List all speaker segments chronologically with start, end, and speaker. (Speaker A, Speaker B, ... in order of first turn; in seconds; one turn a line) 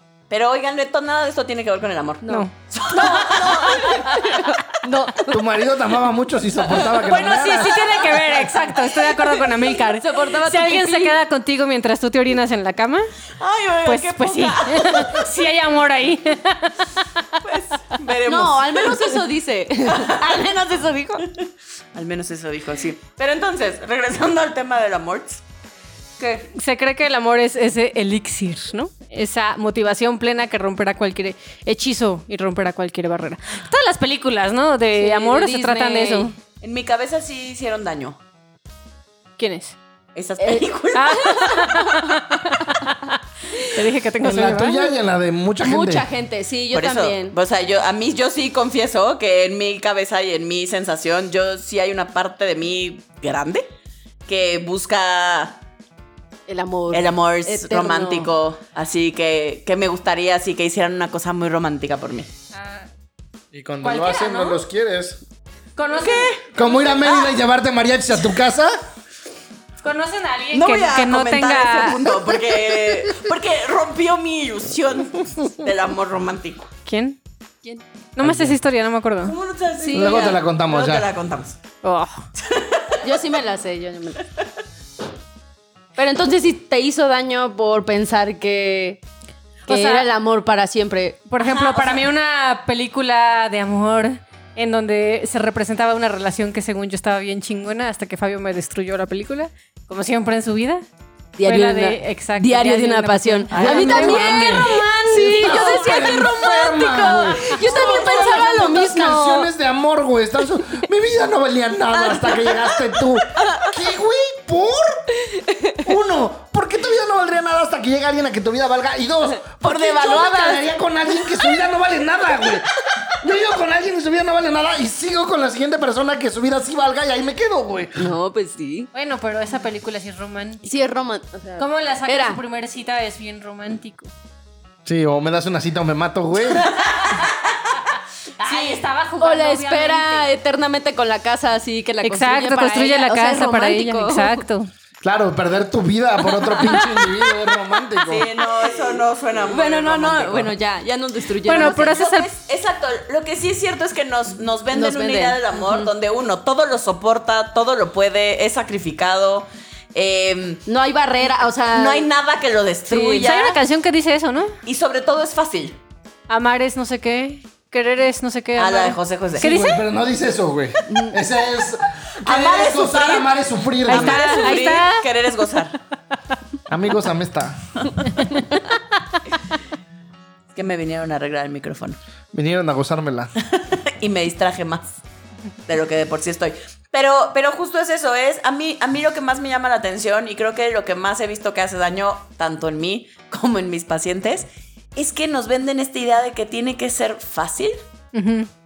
Speaker A: 0.3-4.0
Speaker B: 2.2-5.4
Speaker C: 3.5-4.1
Speaker D: 5.3-8.1
Speaker C: 6.8-13.1
Speaker B: 9.2-11.2
Speaker A: 13.4-15.3
Speaker C: 13.8-17.0
Speaker A: 17.4-19.2
Speaker B: 18.3-21.3
Speaker A: 19.9-20.4
Speaker A: 21.9-25.4
Speaker C: 26.2-36.4
Speaker B: 35.0-36.3
Speaker A: 36.6-38.2
Speaker C: 39.4-39.8
Speaker A: 40.1-41.5
Speaker B: 40.4-41.7
Speaker C: 40.9-43.0
Speaker C: 43.6-44.9
Speaker D: 44.2-46.1
Speaker B: 45.6-47.4
Speaker A: 46.7-53.7
Speaker A: 54.3-55.6
Speaker B: 56.5-58.3
Speaker A: 56.9-62.3
Speaker C: 62.5-62.9
Speaker D: 63.5-65.2
Speaker C: 63.8-64.6
Speaker C: 65.8-67.1
Speaker A: 66.0-66.4
Speaker D: 66.5-68.8
Speaker C: 69.8-72.0
Speaker A: 70.5-76.7
Speaker C: 76.9-77.2
Speaker C: 78.2-79.3
Speaker D: 78.2-78.6
Speaker A: 79.2-81.6
Speaker B: 79.8-80.4
Speaker D: 79.9-81.1
Speaker C: 81.8-82.2
Speaker A: 82.4-83.0
Speaker B: 83.0-84.3
Speaker B: 86.0-89.0
Speaker C: 89.7-90.1
Speaker B: 89.7-91.3
Speaker C: 91.3-100.8
Speaker A: 91.4-92.1
Speaker B: 101.4-106.5
Speaker C: 101.4-108.6
Speaker A: 103.5-103.9
Speaker D: 103.5-115.0
Speaker B: 107.1-109.5
Speaker B: 111.9-113.8
Speaker B: 115.3-115.8
Speaker D: 115.8-128.1
Speaker B: 119.6-120.6
Speaker B: 128.0-128.9
Speaker C: 128.9-130.6
Speaker B: 130.6-132.4
Speaker C: 131.6-134.1
Speaker D: 134.8-136.7
Speaker C: 138.4-140.3
Speaker B: 138.5-144.5
Speaker C: 142.0-144.7
Speaker D: 145.0-148.3
Speaker B: 146.2-147.3
Speaker B: 148.0-152.0
Speaker A: 148.1-150.5
Speaker C: 151.4-152.3
Speaker A: 151.5-160.6
Speaker B: 154.7-155.9
Speaker B: 160.7-162.1
Speaker A: 161.7-163.6
Speaker B: 162.9-163.3
Speaker C: 163.2-164.5
Speaker A: 164.6-165.8
Speaker C: 166.3-169.8
Speaker A: 168.6-169.5
Speaker D: 169.4-174.5
Speaker B: 170.9-171.2
Speaker A: 172.2-173.3
Speaker C: 173.9-175.0
Speaker A: 173.9-175.8
Speaker D: 176.7-177.6
Speaker A: 180.6-182.0
Speaker D: 182.3-183.3
Speaker A: 183.4-185.0
Speaker A: 185.7-197.8
Speaker C: 198.1-198.5